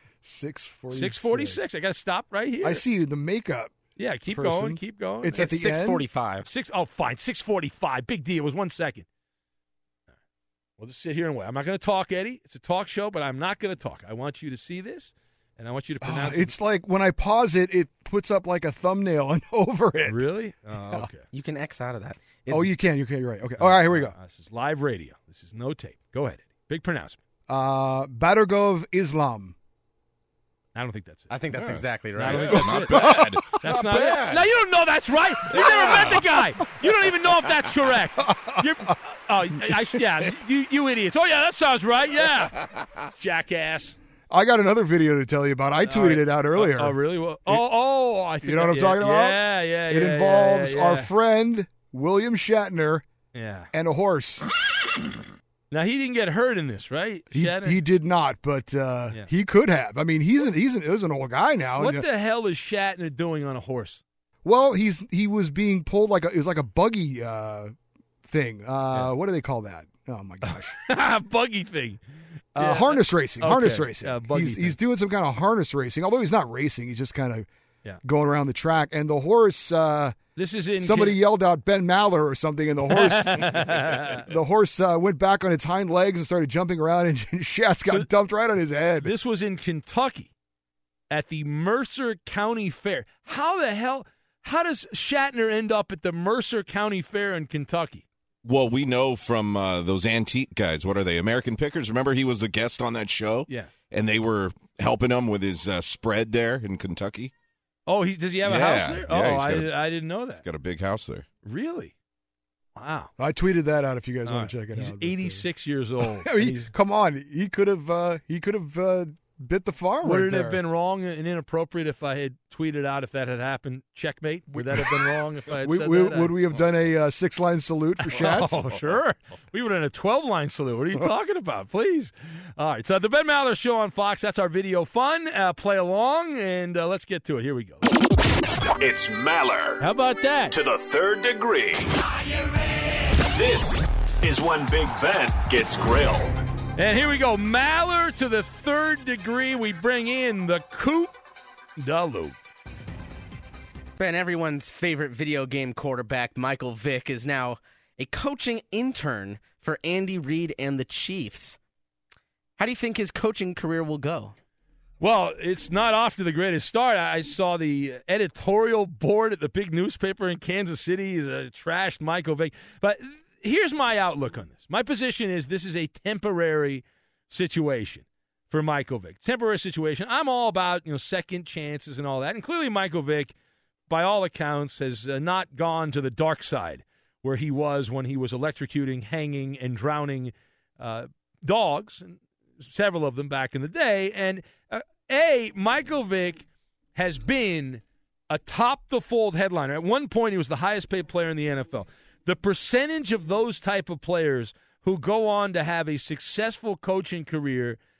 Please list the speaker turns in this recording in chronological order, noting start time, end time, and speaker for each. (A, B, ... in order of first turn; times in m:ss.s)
0:00.2-0:01.6 A
0:00.9-0:02.8 B
0:02.6-0:03.7 A
0:04.0-0:05.5 B
0:04.3-0:06.0 A
0:05.4-0:06.5 C
0:06.4-0:09.0 B
0:10.8-0:16.5 B
0:16.0-0:21.1 A
0:20.0-0:21.2 B
0:21.3-0:22.7 C
0:22.5-0:24.1 A
0:23.6-0:27.2 B
0:27.5-0:29.6 A
0:30.7-0:31.3 B
0:31.3-0:32.8 C
0:31.5-0:34.5 D
0:32.2-0:42.6 B
0:32.6-0:33.4 A
0:35.5-0:36.3 D
0:35.6-0:36.4 A
0:38.2-0:38.9 A
0:43.2-0:44.0 B
0:44.3-0:47.6 A
0:45.8-0:51.1 B
0:48.4-0:53.0 A
0:53.3-0:53.7 B
0:53.7-0:54.4 A
0:55.7-0:57.8 B
0:57.3-1:02.0 A
1:01.8-1:04.0 B
1:04.4-1:10.8 A
1:10.4-1:12.0 B
1:12.5-1:17.5 A
1:12.6-1:14.8 B
1:18.0-1:20.2 A
1:20.4-1:21.2 B
1:20.8-1:29.1 A
1:22.9-1:24.2 B
1:29.0-1:30.3 B
1:31.1-1:38.0 B
1:38.4-1:47.3 D
1:47.9-1:50.4 B
1:48.4-1:49.7 D
1:50.4-1:51.3 D
1:51.4-1:51.9 B
1:52.8-1:53.1 B
1:53.2-1:55.4 A
1:54.2-1:56.7 B
1:56.0-2:00.6 A
2:00.0-2:06.3 B
2:04.5-2:08.6 A
2:08.0-2:17.8 B
2:18.8-2:19.8 E
2:19.8-2:20.6 B
2:20.5-2:22.0 E
2:23.2-2:26.4 E
2:26.8-2:31.1 B
2:31.8-2:32.4 B
2:34.0-2:41.6 C
2:42.6-2:44.3 C
2:45.0-3:03.3 B
3:03.9-3:27.8 B